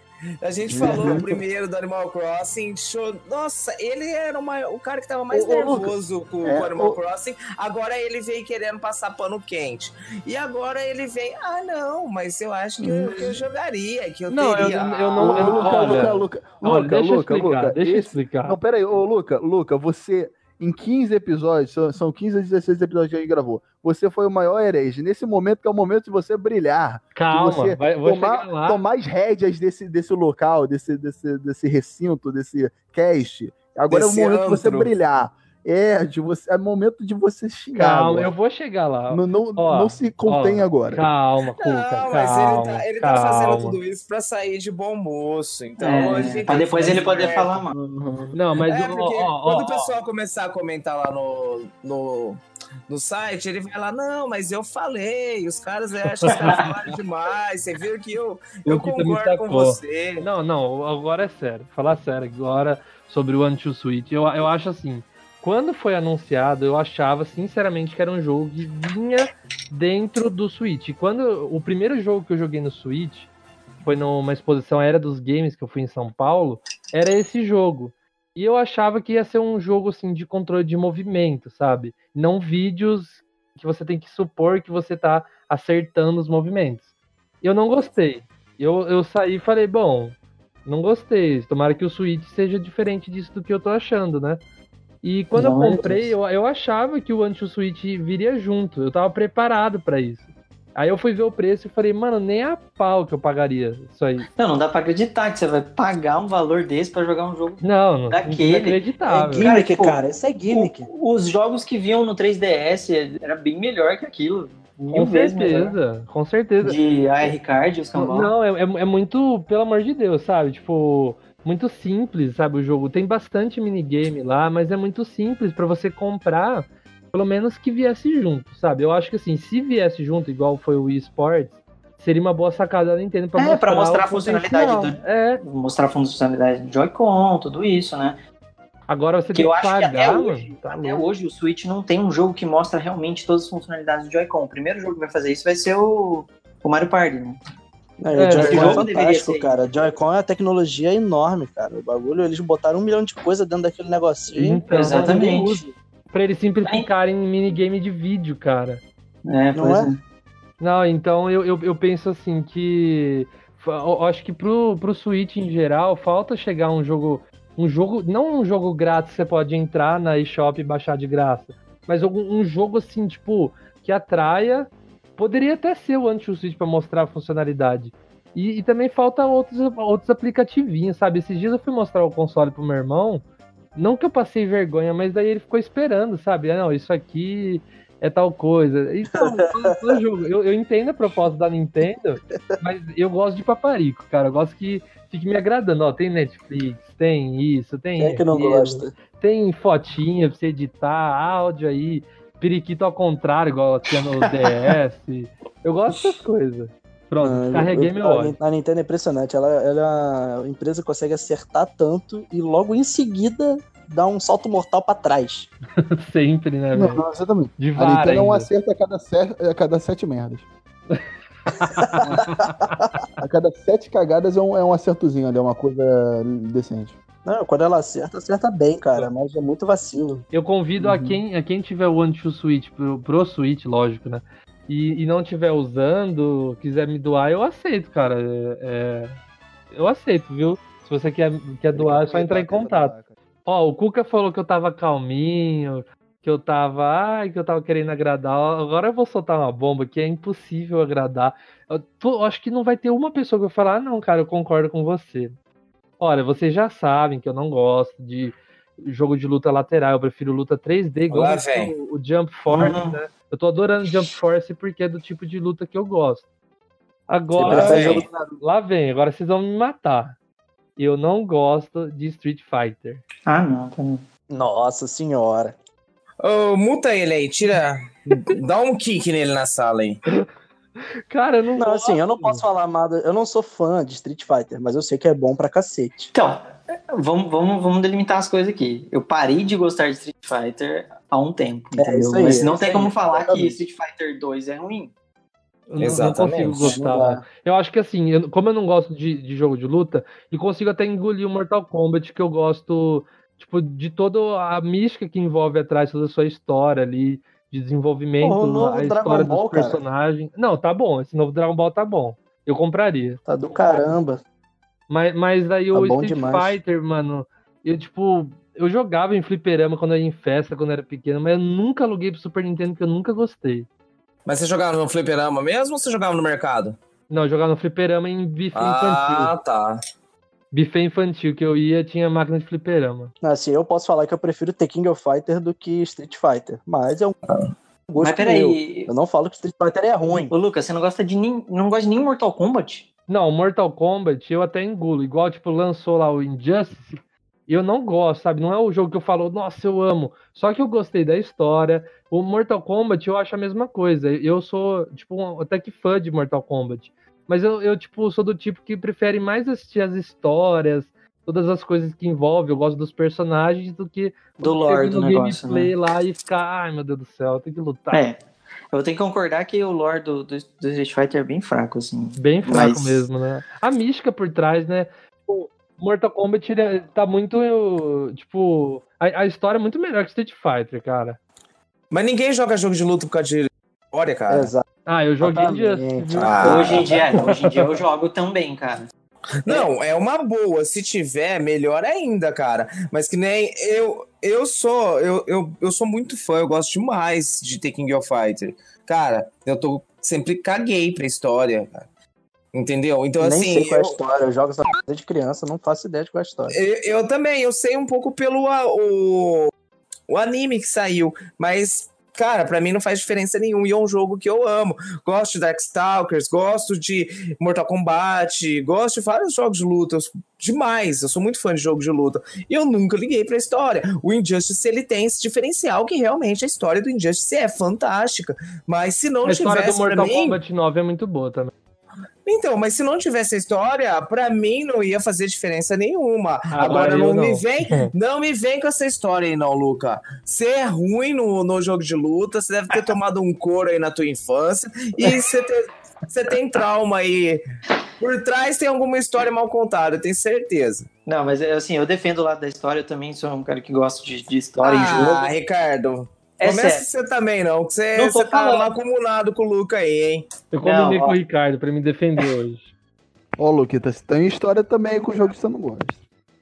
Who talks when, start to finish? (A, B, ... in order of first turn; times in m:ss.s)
0:00.4-0:16.1 A
0:00.6-0:01.4 B
0:05.3-0:07.0 B
0:12.8-0:13.4 B
0:14.3-0:18.6 C
0:15.2-0:38.3 B
0:27.1-0:28.8 C
0:33.9-0:34.9 A
0:37.7-0:43.8 C
0:39.1-0:41.0 B
0:41.6-0:47.5 A
0:45.8-0:47.7 D
0:46.2-0:48.4 B
0:48.3-0:49.9 C
0:48.7-1:00.3 A
0:56.3-0:56.7 D
0:56.4-0:56.6 C
0:58.6-1:13.3 C
1:13.8-1:26.9 C
1:27.4-1:34.4 C
1:35.0-1:44.3 C
1:35.3-1:36.1 D
1:44.3-1:55.8 D
1:47.6-1:49.5 C
1:49.3-1:50.9 E
1:54.8-1:57.3 C
1:56.6-1:58.3 D
1:58.0-2:15.4 C
2:13.4-2:18.2 D
2:18.9-2:21.0 C
2:19.3-2:27.4 D
2:28.0-2:35.7 E
2:28.1-2:28.8 C
2:28.3-2:29.6 D
2:34.3-2:38.8 C
2:34.7-2:35.6 D
2:39.2-2:40.0 D
2:39.5-2:39.9 E
2:40.6-3:03.2 C
3:03.7-3:28.4 C
3:09.1-3:10.0 E
3:18.0-3:18.9 E
3:27.2-3:35.5 E
3:35.8-3:37.0 C
3:36.7-3:40.5 B
3:37.6-3:38.5 C
3:40.9-3:42.4 C
3:41.8-3:42.9 E
3:43.2-3:47.0 B
3:47.2-3:50.2 E
3:50.3-3:59.2 C
3:50.8-3:51.2 B
3:59.7-4:02.9 C
4:01.7-4:03.1 B
4:03.4-4:15.3 C
4:16.0-4:26.2 C
4:21.1-4:21.7 A
4:22.5-4:23.0 D
4:27.1-4:30.2 C
4:27.3-4:28.4 E
4:27.5-4:28.0 A
4:30.8-4:33.0 C
4:33.2-4:34.0 D
4:34.3-4:35.6 E
4:36.2-4:40.0 A
4:41.1-4:42.4 C
4:41.6-4:46.1 E
4:46.1-4:54.9 D
4:51.7-4:53.6 E
4:55.7-5:13.2 C
4:55.8-4:57.0 A
4:56.6-4:57.2 E
5:08.2-5:09.8 E
5:13.3-5:14.2 E
5:14.9-5:23.7 C
5:15.7-5:16.6 E
5:24.2-5:26.8 A
5:27.1-5:29.3 C
5:28.5-5:29.8 A
5:30.5-5:33.1 C
5:33.2-5:37.2 E
5:37.9-5:40.3 E
5:38.0-5:38.9 D
5:40.3-5:42.9 D
5:43.1-6:08.0 C
6:04.4-6:05.7 D
6:07.9-6:08.2 D
6:08.7-6:13.0 D
6:12.2-6:21.2 C
6:21.9-6:24.5 A
6:24.3-6:24.6 E
6:24.8-6:27.5 C
6:25.2-6:26.8 E
6:26.2-6:26.8 A
6:26.4-6:28.9 D
6:29.4-6:41.9 A
6:42.5-6:44.0 A
6:43.2-6:46.6 E
6:46.5-6:49.5 A
6:50.1-7:10.4 A
7:09.2-7:11.5 C
7:12.2-7:27.4 A
7:16.5-7:17.9 C
7:28.0-7:30.9 A
7:31.0-7:35.3 D
7:34.6-7:40.3 A
7:36.4-7:36.8 D
7:37.9-7:38.7 D
7:40.5-7:42.7 C
7:40.6-7:41.2 D
7:43.4-7:46.0 B